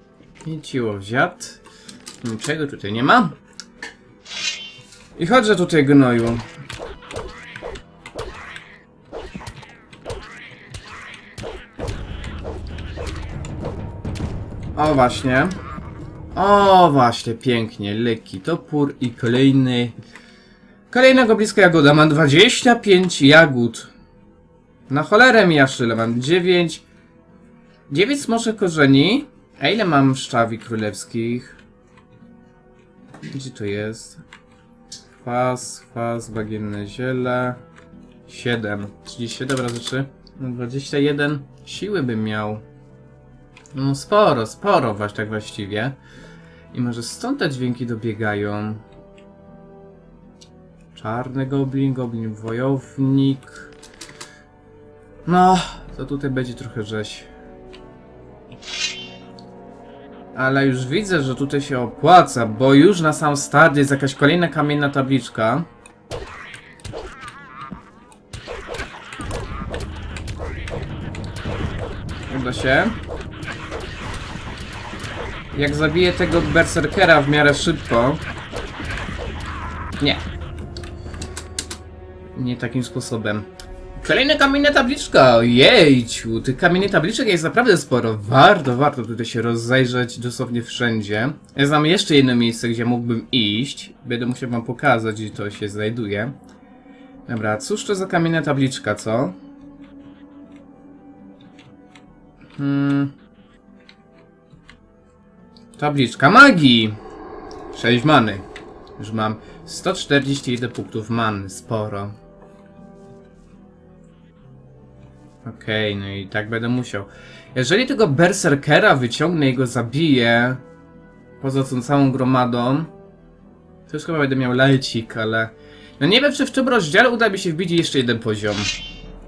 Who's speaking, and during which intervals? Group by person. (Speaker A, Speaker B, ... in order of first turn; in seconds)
Speaker A: 0.4-1.6, 2.2-3.4, 5.2-6.4, 14.7-15.6, 16.3-19.9, 20.9-23.9, 24.9-26.8, 27.9-31.6, 33.2-34.2, 35.2-37.6, 38.2-42.6, 43.7-46.0, 46.7-48.8, 50.9-53.7, 55.2-57.3, 60.3-65.7, 72.3-73.0, 75.5-78.2, 82.3-83.5, 84.0-96.3, 97.3-99.3, 102.6-103.1, 105.8-107.0, 107.7-108.4, 109.0-112.1, 115.4-120.6, 121.4-122.9, 123.9-128.7